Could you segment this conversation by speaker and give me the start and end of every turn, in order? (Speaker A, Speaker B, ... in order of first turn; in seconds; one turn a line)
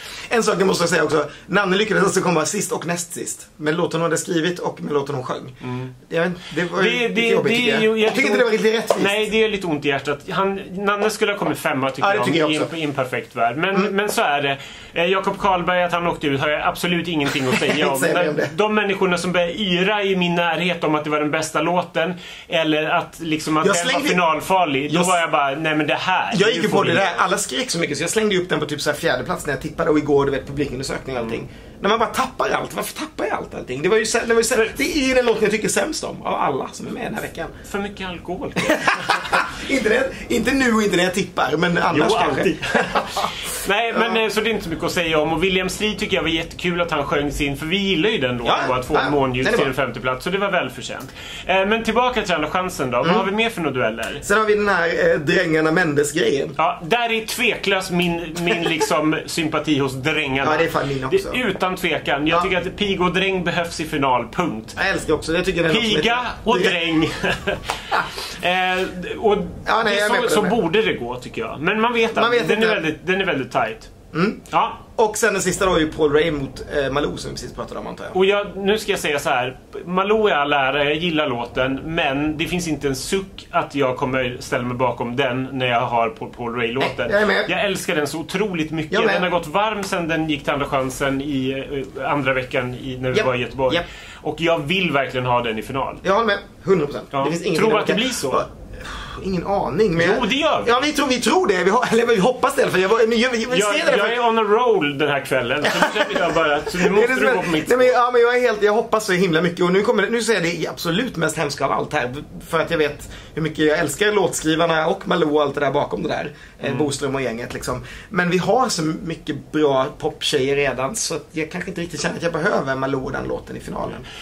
Speaker A: 0.3-5.6
Speaker B: 5.6-5.9
Speaker A: 6.1-9.2
Speaker B: 6.7-27.2
Speaker A: 12.0-12.7
Speaker A: 17.5-18.5
Speaker A: 23.6-24.2
Speaker A: 24.9-25.2
Speaker A: 26.3-37.5
Speaker B: 37.6-39.5
Speaker A: 38.6-44.2
Speaker B: 41.9-54.2
Speaker A: 48.4-49.7
Speaker A: 54.2-56.6
Speaker B: 56.6-64.8
Speaker A: 60.4-61.4
Speaker A: 64.8-66.8
Speaker B: 65.7-73.9
Speaker A: 69.7-70.6
Speaker A: 72.1-72.8
Speaker A: 74.1-74.4
Speaker B: 74.5-74.8
Speaker A: 74.9-78.2
Speaker B: 78.1-96.0
Speaker A: 86.8-87.5
Speaker A: 88.9-89.3
Speaker A: 93.1-93.8
Speaker A: 96.0-104.2
Speaker B: 97.1-98.5
Speaker B: 100.0-100.8
Speaker B: 103.5-108.0
Speaker A: 105.6-124.0